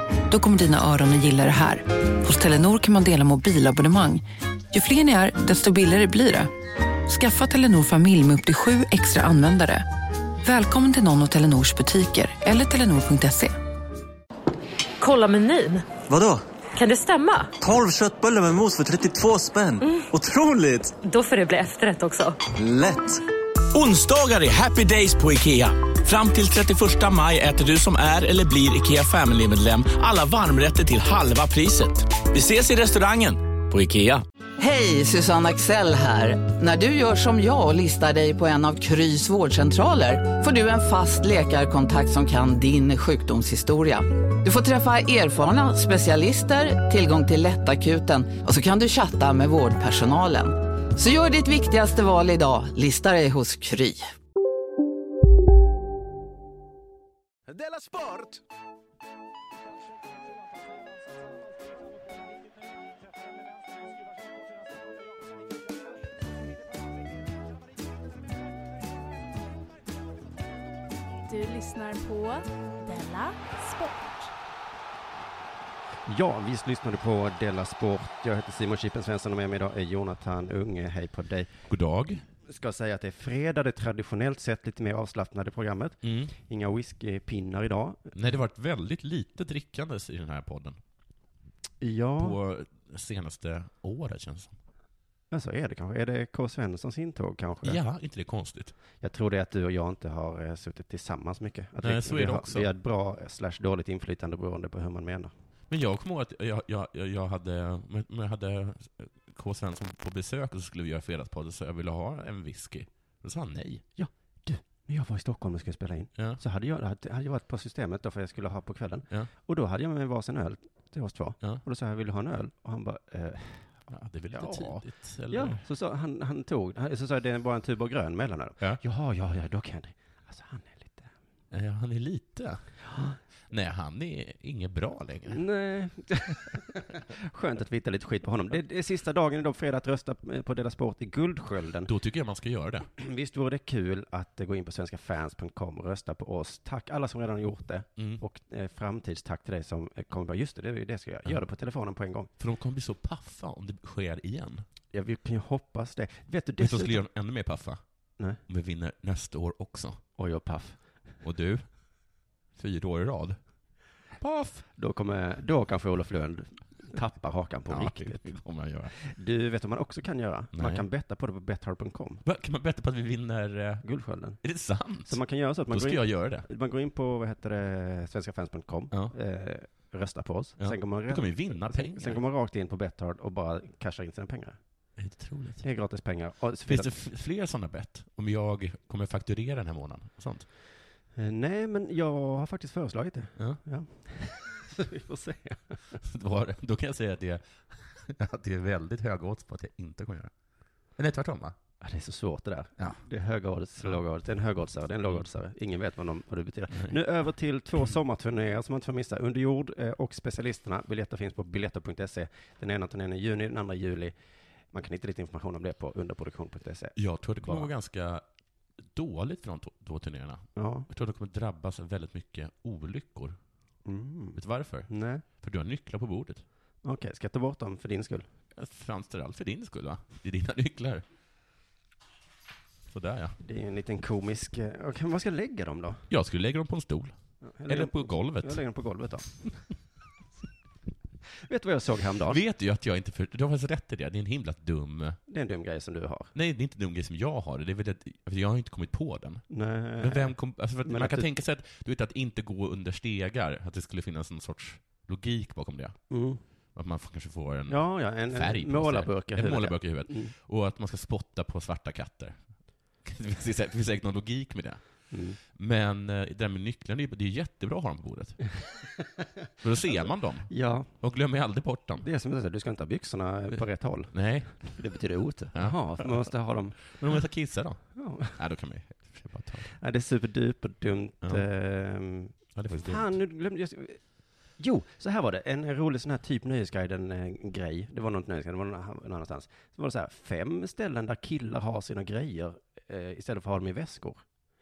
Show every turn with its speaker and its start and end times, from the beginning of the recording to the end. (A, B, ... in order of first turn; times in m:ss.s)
0:00.3-0:06.5 A
0:07.0-0:09.8 A
0:10.4-0:13.6 A
0:15.0-0:15.9 B
0:16.1-0:16.4 C
0:16.8-0:17.5 B
0:17.6-0:21.0 C
0:21.0-0:22.4 B
0:22.5-0:23.2 C
0:23.7-0:34.2 D
0:34.6-0:54.0 E
1:11.2-1:14.3 F
1:16.1-1:21.5 G
1:21.7-1:22.2 H
1:22.5-1:28.1 G
1:26.0-1:26.3 H
1:28.1-1:30.8 H
1:31.8-1:32.4 G
1:32.2-1:34.6 H
1:35.3-1:37.8 G
1:37.6-1:38.7 H
1:39.0-1:45.3 G
1:41.8-1:42.7 H
1:45.7-1:53.8 H
1:54.0-2:03.7 G
2:03.9-2:05.6 H
2:04.3-2:11.1 G
2:11.5-2:12.6 H
2:12.9-2:13.2 G
2:13.5-2:15.4 H
2:15.3-2:21.9 G
2:21.9-2:22.9 H
2:23.0-2:32.3 G
2:28.0-2:28.2 H
2:32.4-2:34.6 H
2:34.9-2:37.0 G
2:36.6-2:37.8 H
2:38.5-2:40.0 H
2:40.2-2:40.9 G
2:41.2-2:41.7 H
2:42.6-2:43.4 H
2:44.2-2:44.7 H
2:44.8-2:48.4 G
2:47.7-2:48.9 H
2:48.9-2:52.2 G
2:50.5-2:50.9 H
2:52.2-2:53.8 H
2:53.8-2:54.4 G
2:54.4-2:56.5 H
2:55.0-3:04.6 G
3:00.6-3:02.2 H
3:05.0-3:05.6 H
3:05.6-3:06.9 G
3:06.7-3:10.5 H
3:11.2-3:16.0 G
3:16.0-3:20.3 H
3:21.0-3:21.6 H
3:21.8-3:34.2 G
3:34.7-3:37.7 G
3:37.0-3:38.2 H
3:38.8-3:43.4 H
3:40.6-3:40.9 G
3:43.8-3:45.2 G
3:44.4-3:46.4 H
3:46.8-3:48.3 G
3:48.6-3:51.0 H
3:52.9-3:53.4 H
3:53.4-3:56.1 G
3:56.1-3:57.1 H
3:57.4-3:59.6 G
3:57.7-3:58.6 H
4:01.4-4:02.4 G
4:02.3-4:05.2 H
4:05.3-4:06.3 G
4:06.3-4:09.5 H
4:09.5-4:11.3 G
4:10.0-4:16.0 H
4:16.1-4:16.4 G
4:16.8-4:22.4 H
4:17.7-4:20.3 G
4:23.0-4:24.8 H
4:25.1-4:25.4 G
4:25.4-4:28.4 H
4:29.6-4:32.0 H
4:30.5-4:30.9 G
4:32.0-4:37.0 G
4:34.1-4:34.7 H
4:35.5-4:36.3 H
4:36.9-4:39.8 H
4:38.0-4:38.4 G
4:39.8-4:44.0 G
4:42.6-4:43.1 H
4:44.6-4:54.2 G